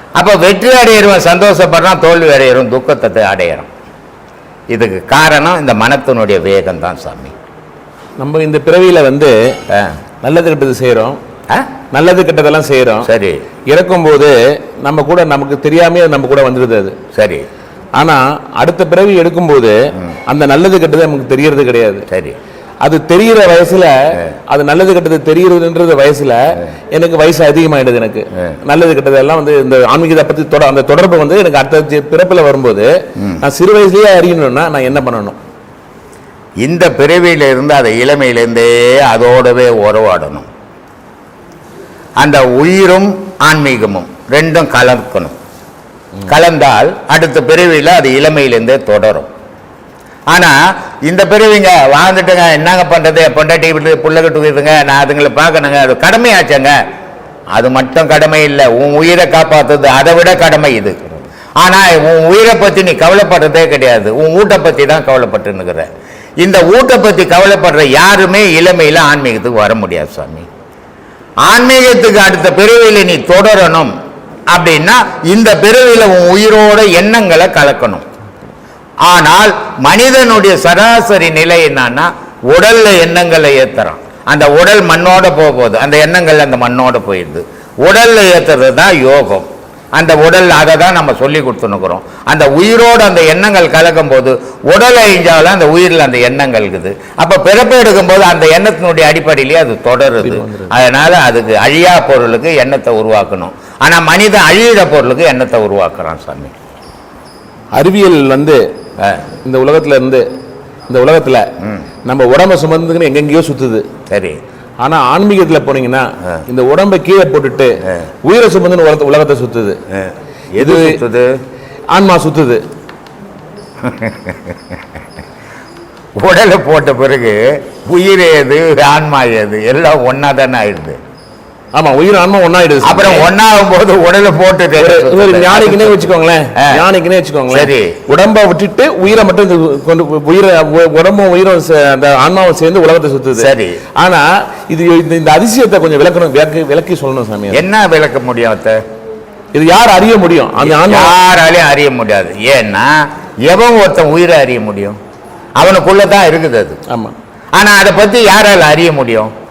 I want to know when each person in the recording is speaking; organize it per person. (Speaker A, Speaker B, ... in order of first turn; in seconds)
Speaker A: 0.1-3.7, 4.7-7.3, 9.7-10.0, 13.0-13.4, 17.1-17.4, 22.1-22.4, 33.2-33.4, 36.6-40.5, 42.2-45.3, 46.3-49.3, 50.3-56.8, 57.5-61.0, 61.6-65.8, 66.4-70.5, 71.4-73.9, 74.5-78.0, 79.0-106.5, 111.6-111.9, 114.1-114.4, 119.9-121.3, 123.8-124.4, 126.2-131.0, 132.8-136.8, 137.5-138.0, 143.3-143.8, 147.5-148.8, 150.6-152.9, 153.4-155.0, 155.6-156.8, 157.5-159.3
Speaker B: 8.2-9.3, 10.2-11.2, 11.9-13.1, 13.7-16.9, 17.9-22.1, 22.8-32.9, 33.4-35.4, 100.2-100.8, 107.7-108.6, 109.4-110.2, 110.9-111.5, 112.0-113.8, 114.8-119.8, 120.6-121.0, 121.9-122.6, 131.7-133.3, 134.8-147.6, 149.5-151.2, 156.9-157.1